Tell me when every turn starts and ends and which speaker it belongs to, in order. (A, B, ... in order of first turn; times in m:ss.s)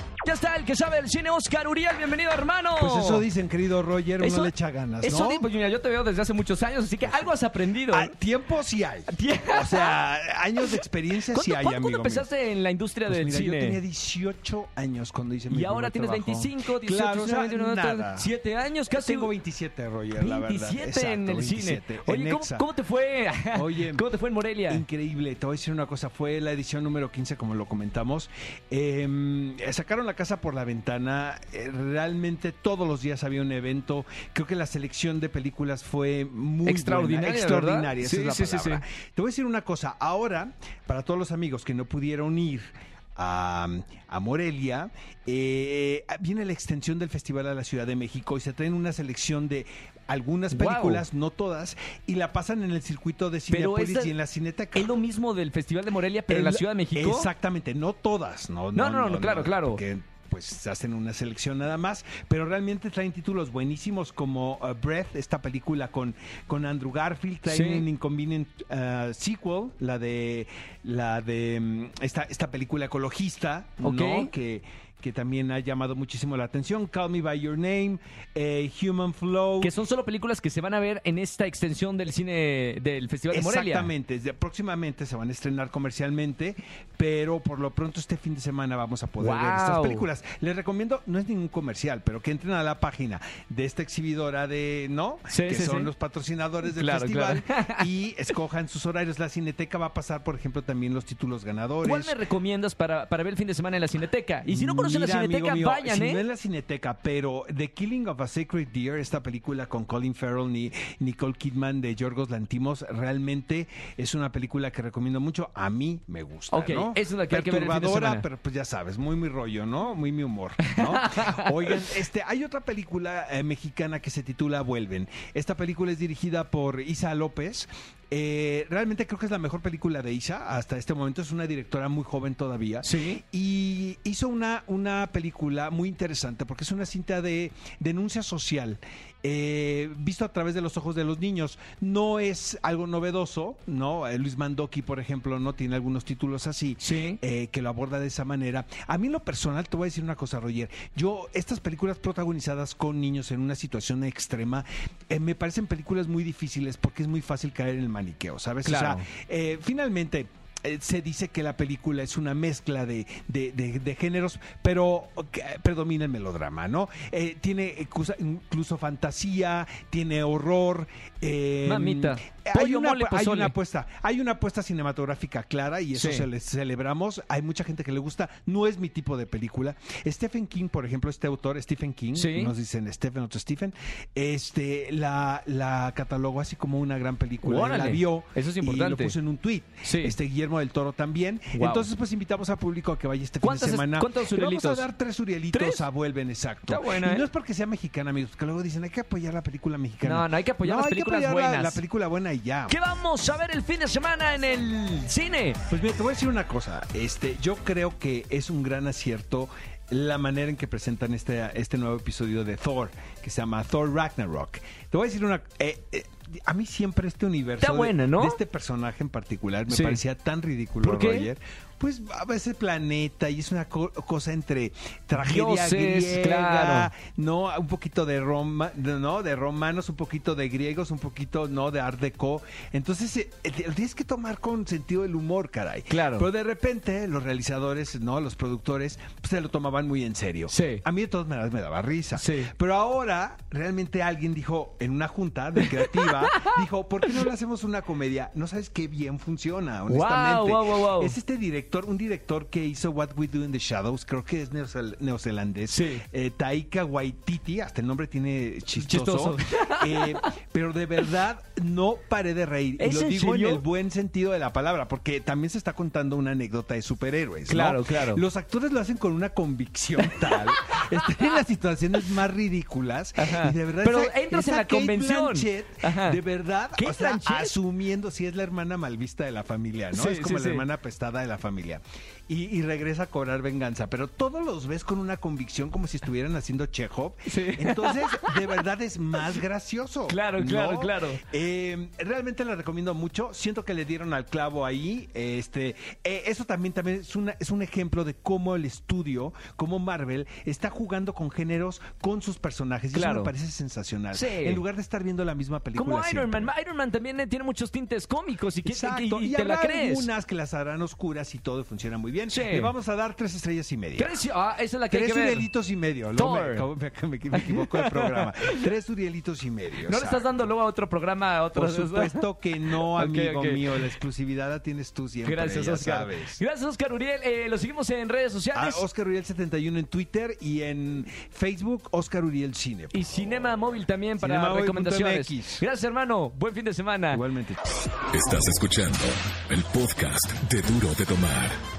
0:00.2-0:03.3 A
0:02.8-0:05.5 B
0:04.2-0:08.1 A
0:07.9-0:12.3 B
0:09.1-0:10.0 A
0:10.7-0:13.8 A
0:13.1-0:18.3 B
0:15.5-0:19.3 A
0:18.9-0:22.7 B
0:20.1-0:24.8 A
0:23.5-0:24.1 B
0:24.7-0:54.9 B
0:36.6-0:38.8 A
0:50.5-0:51.0 A
0:53.5-0:54.1 A
0:54.7-0:57.3 A
0:56.3-1:19.7 B
0:58.7-0:59.8 A
1:07.5-1:07.8 A
1:13.8-1:14.3 A
1:19.6-1:23.9 A
1:23.3-1:42.2 B
1:29.2-1:30.1 A
1:35.3-1:35.9 A
1:36.7-1:37.9 A
1:41.8-1:46.2 A
1:44.5-3:22.8 B
1:56.5-1:58.2 A
2:00.7-2:01.8 A
2:12.8-2:13.2 A
2:26.8-2:27.2 A
2:38.6-2:39.0 A
2:51.6-2:53.5 A
2:55.9-2:56.3 A
3:02.1-3:02.5 A
3:07.4-3:09.2 A
3:09.8-3:10.1 A
3:11.5-3:11.9 A
3:13.4-3:14.9 A
3:15.5-3:15.8 A
3:16.6-3:17.2 A
3:20.0-3:21.8 A
3:22.7-3:25.6 A
3:25.7-5:06.5 B
3:37.6-3:38.4 A
3:39.7-3:40.0 A
3:40.8-3:41.3 A
3:45.2-3:46.9 A
3:55.9-3:56.3 A
4:00.5-4:00.8 A
4:02.1-4:02.5 A
4:05.6-4:06.5 A
4:09.9-4:11.1 A
4:15.7-4:16.0 A
4:18.8-4:20.2 A
4:22.8-4:23.6 A
4:27.5-4:28.2 A
4:30.0-4:31.4 A
4:33.2-4:36.2 A
4:36.8-4:37.6 A
4:39.9-4:40.6 A
4:47.3-4:48.6 A
4:50.1-4:51.2 A
5:02.9-5:03.3 A
5:04.1-5:04.6 A
5:05.7-5:10.1 A
5:08.6-5:14.2 B
5:12.3-5:12.7 A
5:14.0-5:15.5 A
5:14.9-5:20.3 B
5:16.1-5:16.6 A
5:17.3-5:18.6 A
5:19.8-5:23.9 A
5:21.5-5:26.4 B
5:25.2-5:28.8 A
5:28.5-5:33.0 B
5:32.9-5:37.2 A
5:34.2-5:35.6 B
5:37.1-5:37.6 B
5:38.1-5:41.6 C